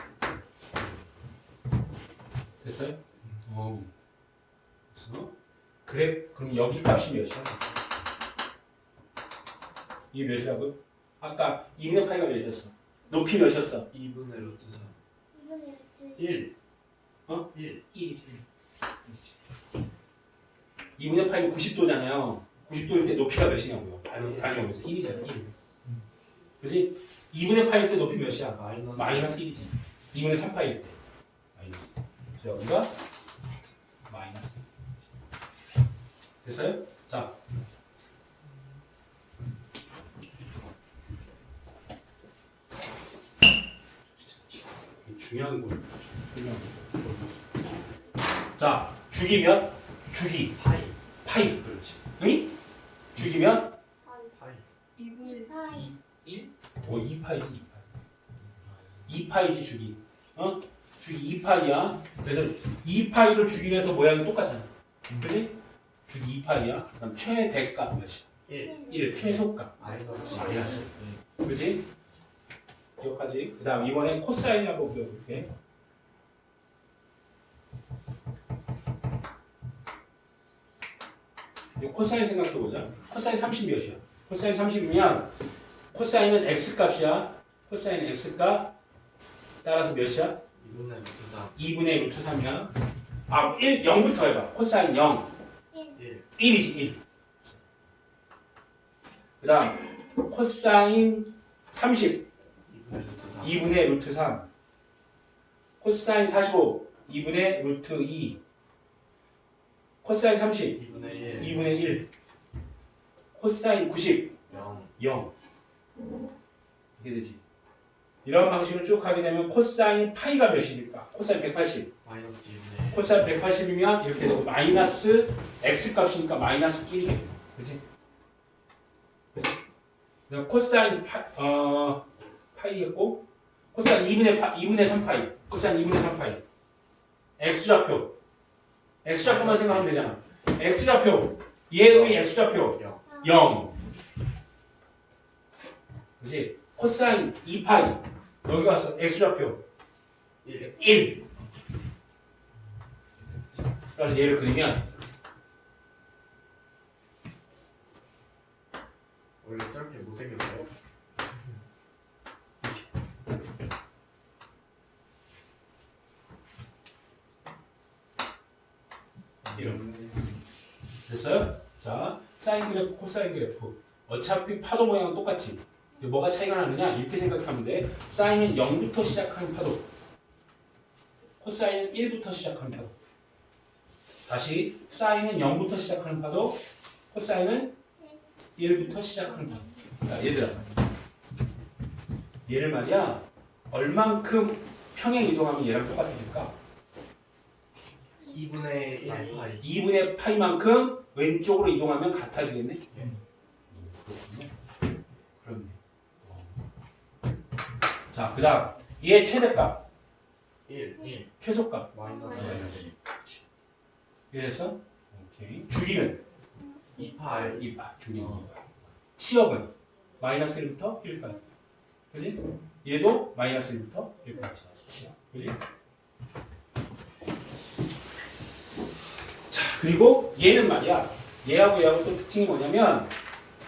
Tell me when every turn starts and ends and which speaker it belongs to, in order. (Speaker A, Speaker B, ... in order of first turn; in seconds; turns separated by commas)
Speaker A: 2.6-3.9, Speaker A: 4.9-5.3, Speaker A: 5.8-7.8, Speaker A: 10.1-13.9, Speaker B: 13.9-15.0, Speaker C: 15.3-16.2, Speaker B: 16.1-16.5, Speaker A: 17.3-18.4, Speaker B: 17.5-17.8, Speaker A: 19.1-19.4, Speaker A: 21.0-25.5, Speaker B: 24.1-24.6, Speaker A: 26.6-31.0, Speaker B: 28.5-29.4, Speaker A: 31.6-32.9, Speaker A: 34.1-34.8, Speaker A: 36.4-37.4, Speaker A: 44.2-47.4, Speaker A: 48.6-50.6, Speaker B: 50.5-51.0, Speaker A: 51.2-52.5, Speaker A: 53.1-53.8, Speaker B: 54.1-54.7, Speaker A: 55.0-57.8, Speaker C: 55.3-55.8, Speaker A: 59.0-68.3, Speaker B: 68.5-69.0, Speaker A: 68.9-71.9, Speaker B: 69.8-71.2, Speaker C: 70.3-70.6, Speaker A: 73.0-75.5, Speaker A: 81.8-85.3, Speaker A: 85.9-88.7, Speaker A: 89.6-90.4, Speaker B: 90.5-91.6, Speaker A: 91.5-92.7, Speaker A: 93.3-95.3, Speaker B: 95.9-96.3, Speaker A: 96.3-97.0, Speaker A: 99.4-102.3, Speaker B: 102.7-103.8, Speaker A: 103.4-104.5, Speaker A: 105.8-108.4, Speaker A: 110.0-110.8, Speaker B: 110.7-112.0, Speaker A: 111.4-112.1, Speaker A: 113.3-114.4, Speaker B: 114.5-115.0, Speaker A: 115.0-115.3, Speaker A: 117.0-117.4, Speaker A: 118.2-121.9, Speaker B: 122.0-123.3, Speaker A: 122.9-127.8, Speaker A: 130.3-136.4, Speaker A: 137.4-138.1, Speaker A: 139.0-143.8, Speaker B: 139.2-139.9, Speaker B: 141.9-143.0, Speaker A: 146.2-149.6, Speaker B: 150.4-151.2, Speaker A: 150.7-151.2, Speaker A: 153.9-154.9, Speaker B: 159.4-160.7, Speaker B: 169.4-170.4, Speaker A: 169.6-169.8, Speaker A: 171.1-179.9, Speaker A: 181.4-182.9, Speaker A: 184.2-186.6, Speaker A: 187.1-187.8, Speaker A: 188.6-190.6, Speaker A: 192.5-196.6, Speaker B: 198.3-199.7, Speaker A: 199.6-203.0, Speaker B: 202.9-203.2, Speaker A: 203.7-204.5, Speaker A: 205.4-206.5, Speaker A: 208.1-209.8, Speaker B: 210.7-211.3, Speaker A: 211.4-213.4, Speaker B: 211.9-212.9, Speaker C: 212.1-212.6, Speaker A: 214.3-216.2, Speaker B: 217.0-217.6, Speaker A: 217.4-221.4, Speaker A: 222.1-225.6, Speaker A: 229.5-233.1